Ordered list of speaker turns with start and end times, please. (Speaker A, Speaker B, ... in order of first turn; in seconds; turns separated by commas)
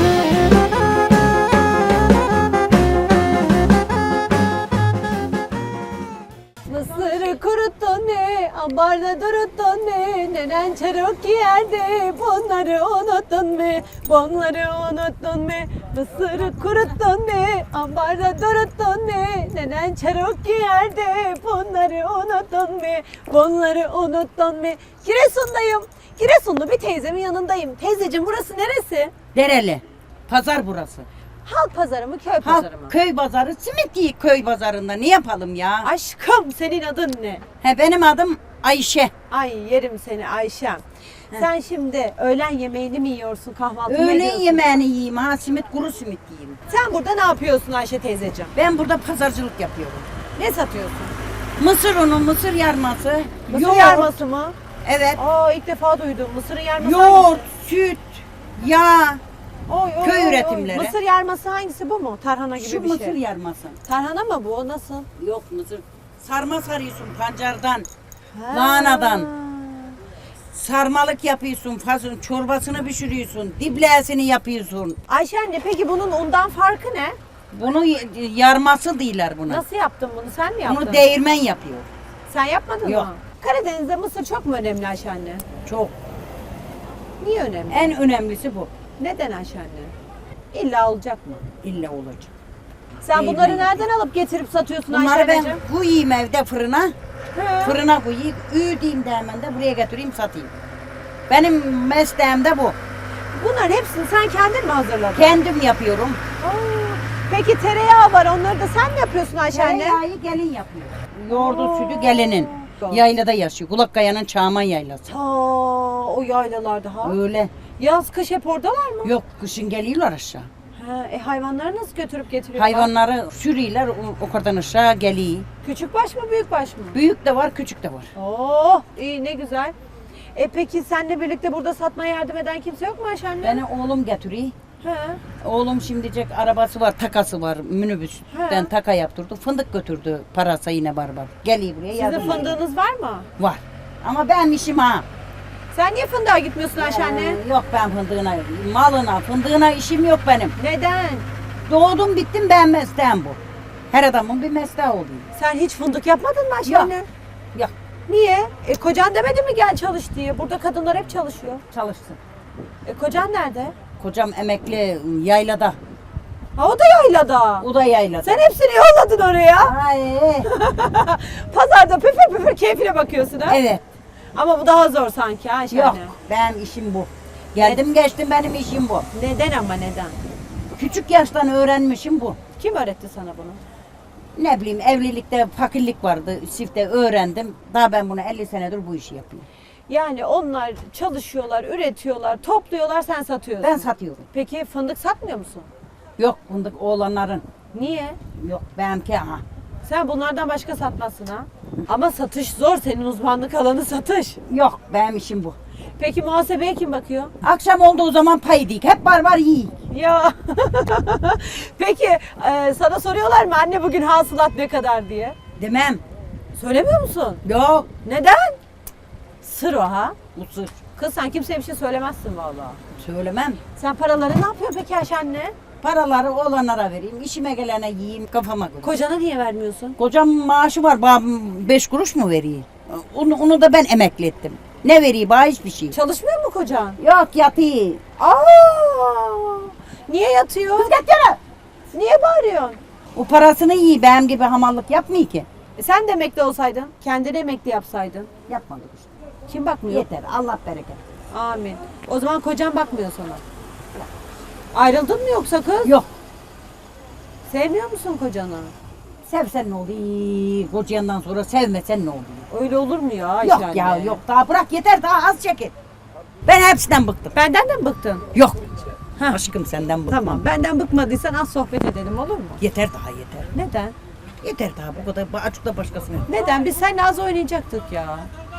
Speaker A: 6.6-29.1, Speaker B: 29.3-31.1, Speaker A: 31.4-32.9, Speaker B: 32.4-35.9, Speaker A: 35.8-37.4, Speaker B: 37.6-39.1, Speaker A: 39.3-44.8, Speaker B: 43.9-46.6, Speaker A: 46.7-48.5, Speaker B: 48.5-50.0, Speaker A: 50.4-51.1, Speaker B: 51.6-54.1, Speaker A: 53.5-54.5, Speaker B: 54.8-55.2, Speaker A: 55.2-57.5, Speaker B: 56.8-59.2, Speaker A: 59.7-63.2, Speaker B: 60.0-61.0, Speaker B: 62.6-63.8, Speaker A: 63.8-65.1, Speaker B: 65.2-67.9, Speaker A: 68.3-70.0, Speaker B: 68.5-69.3, Speaker B: 70.5-75.0, Speaker A: 75.1-77.2, Speaker B: 77.5-79.6, Speaker A: 79.5-81.1, Speaker B: 80.6-81.9, Speaker A: 82.3-85.4, Speaker B: 85.6-85.9, Speaker A: 87.2-87.9, Speaker B: 87.7-88.7, Speaker A: 89.0-89.9, Speaker A: 90.5-91.4, Speaker B: 91.6-92.3, Speaker B: 93.0-93.9, Speaker A: 93.0-95.6, Speaker B: 94.9-96.9, Speaker A: 97.3-97.8, Speaker B: 97.6-100.5, Speaker B: 101.3-102.8, Speaker A: 103.3-105.4, Speaker B: 105.1-106.2, Speaker A: 106.4-110.0, Speaker B: 109.5-115.1, Speaker A: 111.3-113.0, Speaker A: 115.1-117.2, Speaker B: 117.0-117.5, Speaker A: 117.8-119.1, Speaker B: 119.0-120.5, Speaker A: 120.7-122.9, Speaker B: 122.5-125.5, Speaker A: 125.6-127.0, Speaker B: 126.9-128.1, Speaker A: 128.1-129.7, Speaker A: 130.3-133.6, Speaker B: 133.4-134.5, Speaker A: 134.8-135.2, Speaker B: 135.4-142.6, Speaker A: 138.3-138.7, Speaker A: 141.9-143.3, Speaker B: 143.4-145.0, Speaker A: 145.7-147.4, Speaker B: 146.8-150.5, Speaker A: 150.6-151.2, Speaker B: 151.7-153.4, Speaker B: 153.9-155.3, Speaker A: 155.3-157.1, Speaker B: 156.6-156.9, Speaker A: 158.1-161.6, Speaker B: 161.7-162.2, Speaker A: 162.8-163.7, Speaker B: 164.0-165.8, Speaker A: 166.6-167.7, Speaker B: 167.6-168.4, Speaker A: 168.2-169.7, Speaker B: 169.6-170.5, Speaker A: 170.4-173.6, Speaker B: 173.4-173.8, Speaker A: 174.3-176.1, Speaker B: 175.7-179.1, Speaker A: 179.1-180.2, Speaker B: 180.7-182.4, Speaker A: 182.6-183.6, Speaker B: 184.3-189.4, Speaker A: 189.9-195.7, Speaker B: 193.6-194.3, Speaker B: 196.2-197.4, Speaker A: 197.7-198.2, Speaker B: 198.4-199.4, Speaker A: 199.8-204.4, Speaker B: 204.5-205.6, Speaker A: 206.0-207.3, Speaker B: 207.4-209.7, Speaker A: 209.9-215.3, Speaker B: 215.6-216.0, Speaker A: 216.5-217.4, Speaker B: 217.4-217.9, Speaker A: 218.0-218.6, Speaker A: 219.4-220.2, Speaker B: 220.3-220.8, Speaker A: 220.9-222.8, Speaker B: 222.9-223.6, Speaker A: 223.8-225.5, Speaker B: 225.8-228.9, Speaker A: 228.8-229.9, Speaker B: 230.0-235.9, Speaker A: 235.9-237.0, Speaker B: 237.0-238.0, Speaker A: 238.2-241.0, Speaker B: 240.7-241.4, Speaker A: 241.9-242.8, Speaker B: 243.1-245.4, Speaker A: 245.8-248.3, Speaker B: 248.5-249.1, Speaker A: 249.5-250.1, Speaker B: 249.9-251.0, Speaker A: 251.3-253.4, Speaker A: 254.7-255.9, Speaker B: 255.8-256.1, Speaker A: 257.4-258.7, Speaker B: 259.2-262.5, Speaker A: 262.5-264.2, Speaker B: 263.4-265.7, Speaker B: 266.4-267.4, Speaker A: 267.3-268.2, Speaker B: 268.3-268.6, Speaker A: 269.2-269.4, Speaker B: 269.3-270.4, Speaker A: 270.1-272.6, Speaker B: 272.6-273.5, Speaker A: 273.5-273.9, Speaker B: 274.4-276.3, Speaker A: 276.3-278.3